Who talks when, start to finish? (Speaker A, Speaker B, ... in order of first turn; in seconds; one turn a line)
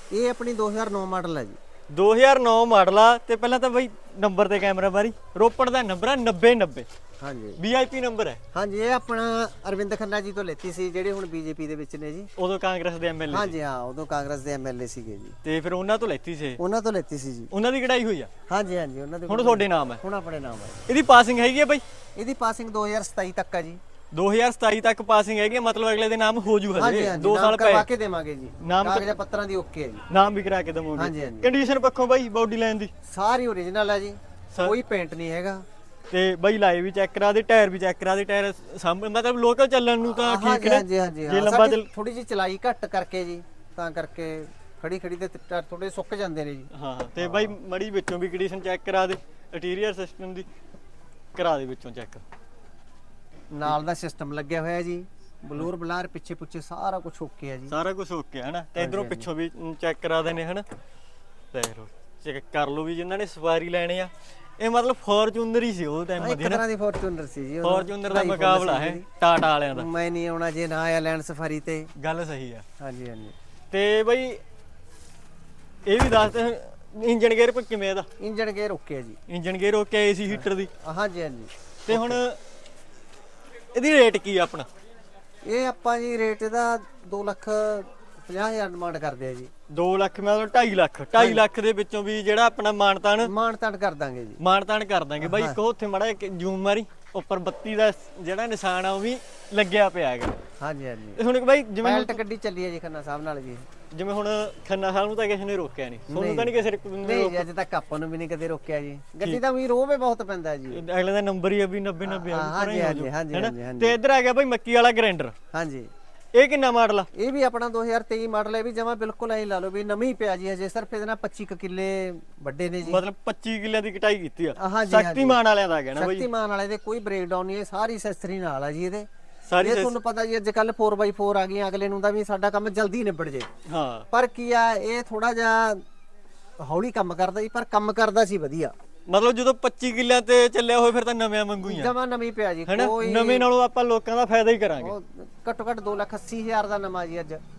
Speaker A: 0.1-1.6
Speaker B: 1.9-6.9
Speaker A: 7.2-7.6
Speaker B: 7.6-8.4
Speaker A: 8.5-12.3
Speaker B: 12.4-13.5
Speaker A: 13.3-15.4
Speaker B: 15.4-16.6
Speaker A: 16.6-17.5
Speaker B: 17.5-18.3
Speaker A: 18.5-20.9
Speaker B: 19.3-20.0
Speaker B: 20.9-21.8
Speaker A: 22.2-23.8
Speaker B: 24.1-27.9
Speaker A: 26.8-30.1
Speaker B: 28.6-29.1
Speaker B: 30.1-32.9
Speaker A: 31.0-31.5
Speaker A: 33.1-35.6
Speaker B: 36.1-41.9
Speaker A: 40.1-47.5
Speaker B: 46.7-50.5
Speaker B: 51.4-52.2
Speaker A: 53.5-57.7
Speaker B: 57.7-60.6
Speaker A: 58.8-59.3
Speaker B: 61.5-66.6
Speaker A: 66.2-69.0
Speaker B: 67.6-69.9
Speaker A: 69.7-71.9
Speaker B: 72.0-72.7
Speaker A: 72.8-73.4
Speaker B: 73.7-74.4
Speaker B: 75.9-78.1
Speaker A: 78.2-79.2
Speaker B: 79.3-80.7
Speaker A: 80.3-82.2
Speaker B: 81.9-82.4
Speaker B: 83.7-84.7
Speaker A: 85.5-89.5
Speaker B: 89.7-93.3
Speaker A: 91.2-91.4
Speaker A: 93.2-94.4
Speaker B: 94.4-100.4
Speaker A: 95.2-95.6
Speaker A: 100.6-101.2
Speaker B: 101.2-102.2
Speaker A: 101.8-103.7
Speaker B: 103.9-107.5
Speaker A: 106.1-110.8
Speaker B: 110.7-115.3
Speaker A: 112.0-114.0
Speaker A: 115.5-115.9
Speaker B: 116.3-117.1
Speaker A: 117.1-123.0
Speaker B: 122.8-126.3
Speaker A: 124.6-125.4
Speaker A: 126.0-129.1
Speaker B: 129.5-129.9
Speaker A: 129.6-133.5
Speaker B: 133.7-134.1
Speaker A: 134.1-135.8
Speaker A: 136.6-138.7
Speaker B: 139.1-141.9
Speaker A: 141.6-143.5
Speaker B: 142.7-144.9
Speaker A: 144.8-147.4